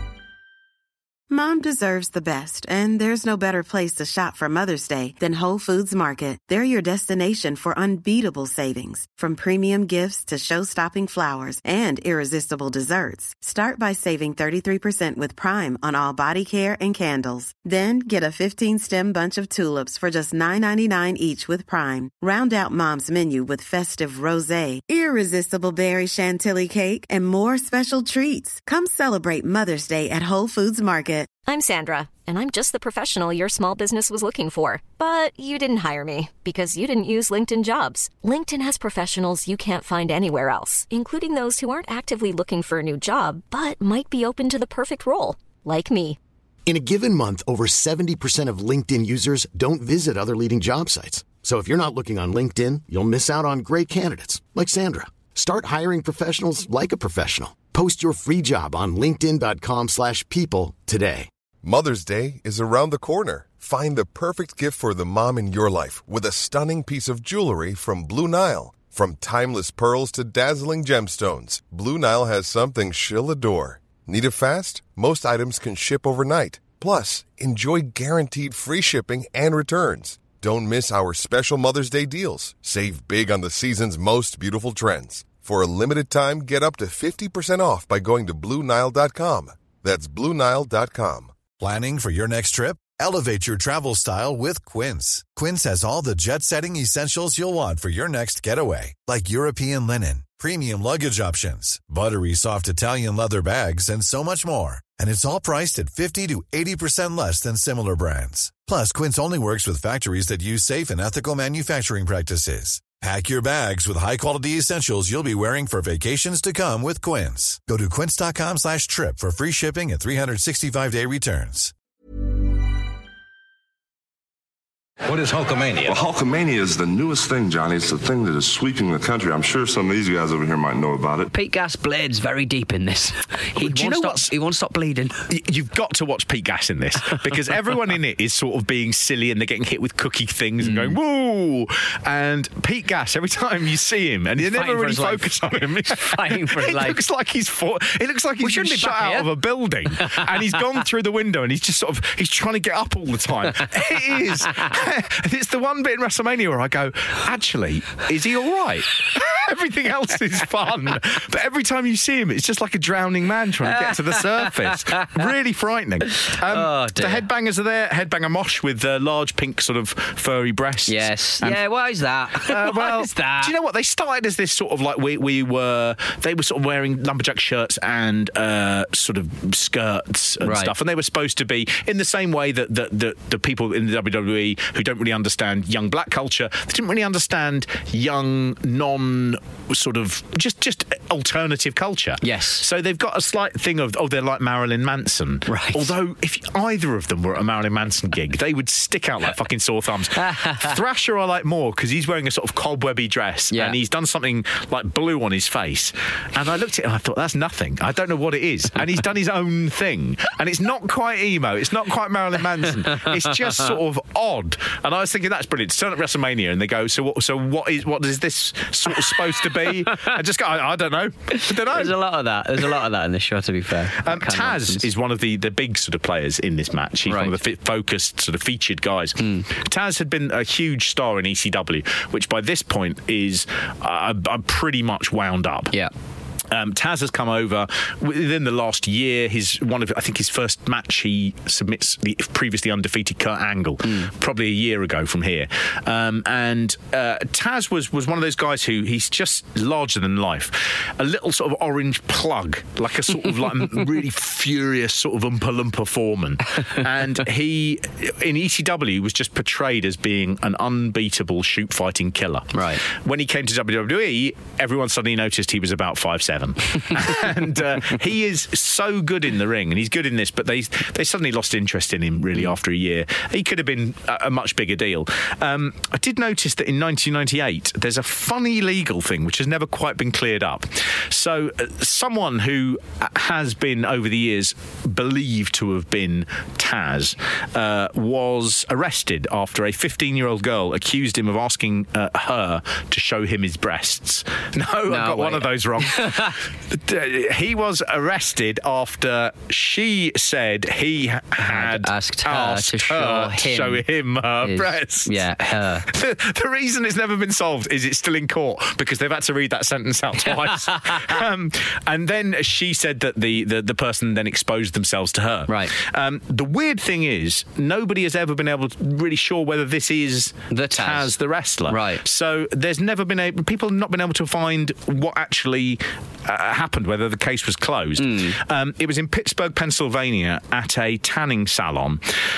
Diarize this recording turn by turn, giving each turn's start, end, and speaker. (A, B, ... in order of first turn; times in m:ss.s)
0:01.3-0:31.3 A
0:31.4-0:46.2 B
0:46.6-1:01.3 C
1:01.6-1:31.3 D
1:31.6-2:01.7 E
2:05.8-2:11.3 F
2:11.3-2:15.2 G
2:13.6-2:14.3 H
2:15.3-2:51.6 H
2:20.6-2:21.0 G
2:24.4-2:27.0 G
2:28.4-2:29.3 G
2:29.9-2:30.6 G
2:34.2-2:34.7 G
2:43.7-2:45.2 G
2:46.2-2:47.2 G
2:50.9-2:53.5 G
2:52.4-3:41.9 H
3:00.4-3:00.7 G
3:12.2-3:12.6 G
3:15.5-3:15.9 G
3:20.2-3:20.7 G
3:32.8-3:33.6 G
3:39.0-3:40.1 G
3:41.3-3:44.9 G
3:44.0-3:55.7 H
3:47.1-3:47.4 G
3:49.2-3:49.4 G
3:56.5-5:05.2 H
4:03.8-4:04.1 G
4:22.5-4:22.8 G
4:54.9-4:56.4 G
5:01.4-5:03.8 G
5:04.4-5:05.9 G
5:05.9-5:32.0 H
5:10.6-5:11.0 G
5:20.5-5:21.1 G
5:21.7-5:22.0 G
5:28.0-5:28.4 G